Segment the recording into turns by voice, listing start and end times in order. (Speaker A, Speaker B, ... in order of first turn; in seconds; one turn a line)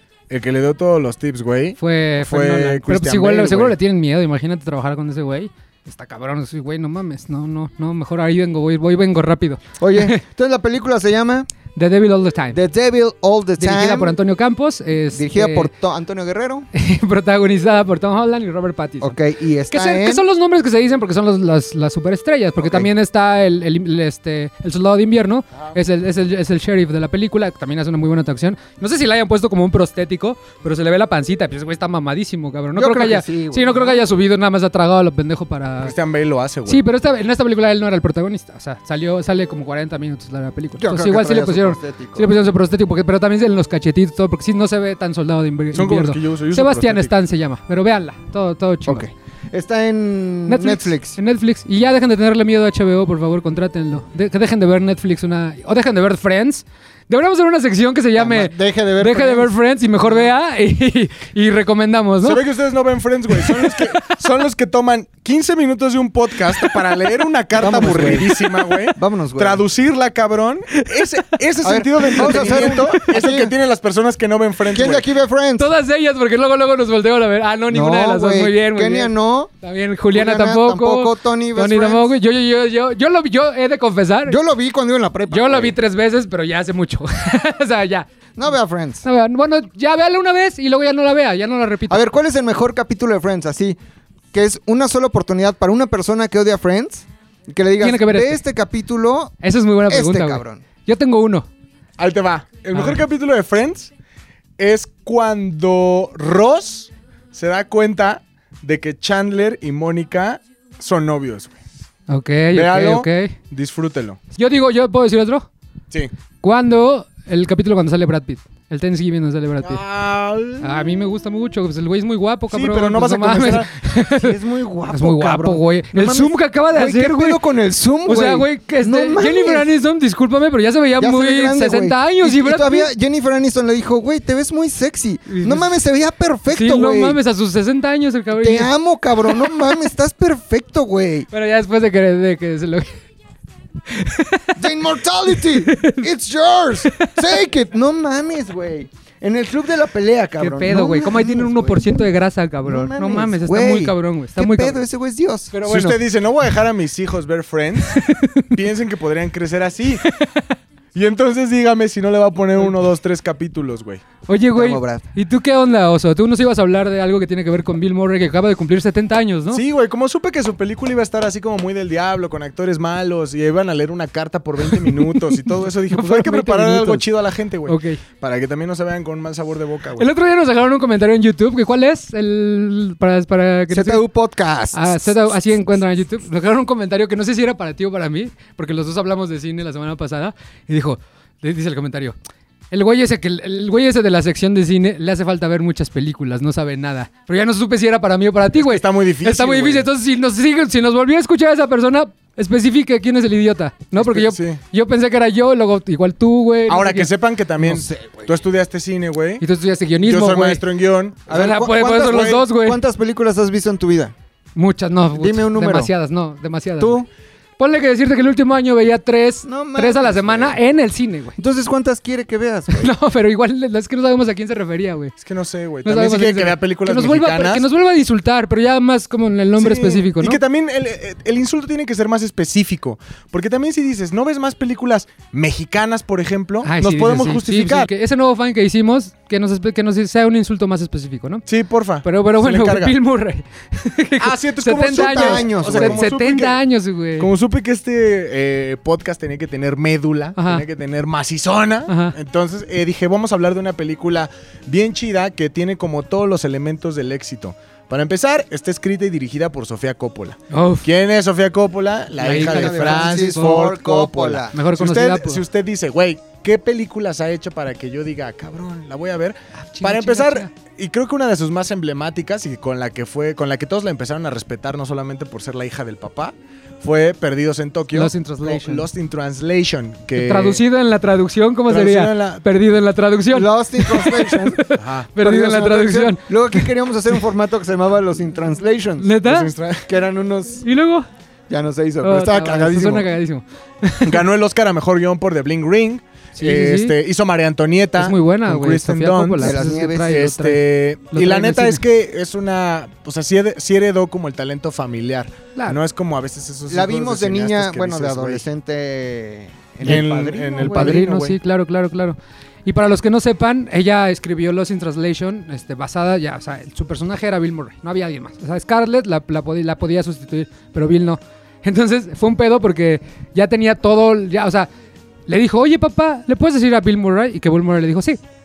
Speaker A: 0.3-3.8
Speaker B: 1.8-10.2
Speaker C: 9.8-11.5
Speaker B: 11.7-12.6
Speaker C: 12.5-14.2
Speaker B: 13.6-15.7
Speaker C: 15.1-16.7
Speaker B: 16.7-19.1
Speaker C: 19.0-20.2
Speaker B: 19.7-35.9
Speaker C: 22.6-22.9
Speaker C: 32.7-34.0
Speaker A: 35.8-36.8
Speaker B: 36.7-49.0
Speaker C: 40.8-42.3
Speaker A: 45.7-47.1
Speaker C: 48.9-51.2
Speaker B: 50.5-62.4
Speaker C: 58.1-60.3
Speaker A: 62.2-75.1
Speaker B: 63.3-64.2
Speaker C: 67.6-68.3
Speaker B: 67.6-68.3
Speaker C: 68.9-69.6
Speaker B: 70.7-71.0
Speaker C: 71.6-73.5
Speaker B: 72.0-73.1
Speaker C: 74.7-75.7
Speaker B: 75.6-84.4
Speaker C: 77.7-79.5
Speaker C: 80.1-82.1
Speaker C: 84.3-85.7
Speaker B: 85.3-88.1
Speaker C: 88.4-89.0
Speaker B: 89.0-92.0
Speaker C: 91.9-93.8
Speaker C: 94.3-99.3
Speaker B: 97.8-98.4
Speaker B: 99.4-101.5
Speaker C: 99.9-100.6
Speaker A: 102.0-103.9
Speaker B: 102.7-103.0
Speaker A: 104.6-111.6
Speaker B: 112.1-113.3
Speaker A: 112.5-114.2
Speaker B: 114.3-115.5
Speaker B: 116.4-119.8
Speaker A: 119.6-120.9
Speaker B: 120.6-124.3
Speaker A: 122.5-123.7
Speaker C: 124.2-129.7
Speaker B: 124.9-127.4
Speaker B: 128.0-132.9
Speaker C: 131.0-137.2
Speaker B: 135.3-135.7
Speaker B: 136.5-138.7
Speaker C: 138.3-141.3
Speaker B: 141.3-143.0
Speaker B: 143.9-146.1
Speaker C: 144.6-152.0
Speaker B: 146.9-147.2
Speaker B: 150.4-154.8
Speaker C: 152.6-155.6
Speaker B: 155.5-156.0
Speaker A: 155.7-160.0
Speaker B: 157.9-158.5
Speaker B: 160.0-160.5
Speaker A: 160.9-164.0
Speaker B: 164.3-169.6
Speaker C: 164.5-165.1
Speaker A: 169.5-180.1
Speaker B: 174.7-177.1
Speaker B: 177.7-178.0
Speaker B: 180.0-184.0
Speaker C: 183.7-185.4
Speaker B: 184.7-192.2
Speaker B: 192.7-207.1
Speaker A: 198.5-199.9
Speaker A: 203.9-204.6
Speaker A: 206.7-209.4
Speaker C: 207.6-208.4
Speaker B: 209.4-210.6
Speaker A: 210.0-211.3
Speaker C: 211.3-214.1
Speaker B: 211.3-212.8
Speaker A: 212.1-212.3
Speaker B: 214.6-217.0
Speaker C: 215.1-215.9
Speaker C: 216.8-217.1
Speaker B: 217.6-221.4
Speaker C: 219.4-220.6
Speaker C: 221.4-222.9
Speaker B: 222.7-225.1
Speaker A: 225.2-227.6
Speaker B: 225.8-230.4
Speaker A: 229.6-237.9
Speaker B: 236.6-241.4
Speaker A: 241.5-242.9
Speaker B: 242.0-247.3
Speaker A: 244.2-246.6
Speaker C: 244.8-246.0
Speaker A: 247.2-280.6
Speaker B: 250.4-250.6
Speaker B: 251.9-252.1
Speaker B: 260.5-260.9
Speaker B: 262.2-263.7
Speaker C: 262.2-264.5
Speaker B: 264.5-265.4
Speaker B: 269.6-270.5
Speaker B: 277.9-278.9
Speaker B: 280.1-286.7
Speaker A: 281.7-282.4
Speaker C: 283.3-284.6
Speaker A: 284.8-285.1
Speaker C: 285.2-289.1
Speaker B: 289.0-289.5
Speaker A: 289.2-289.9
Speaker C: 289.9-290.6
Speaker B: 290.6-291.1
Speaker C: 291.5-293.1
Speaker B: 292.0-294.2
Speaker A: 294.0-308.4
Speaker B: 296.4-296.9
Speaker B: 298.0-300.6
Speaker C: 299.4-300.2
Speaker B: 301.1-301.8
Speaker C: 306.7-311.0
Speaker A: 309.8-311.4
Speaker B: 310.6-324.7
Speaker B: 325.3-328.2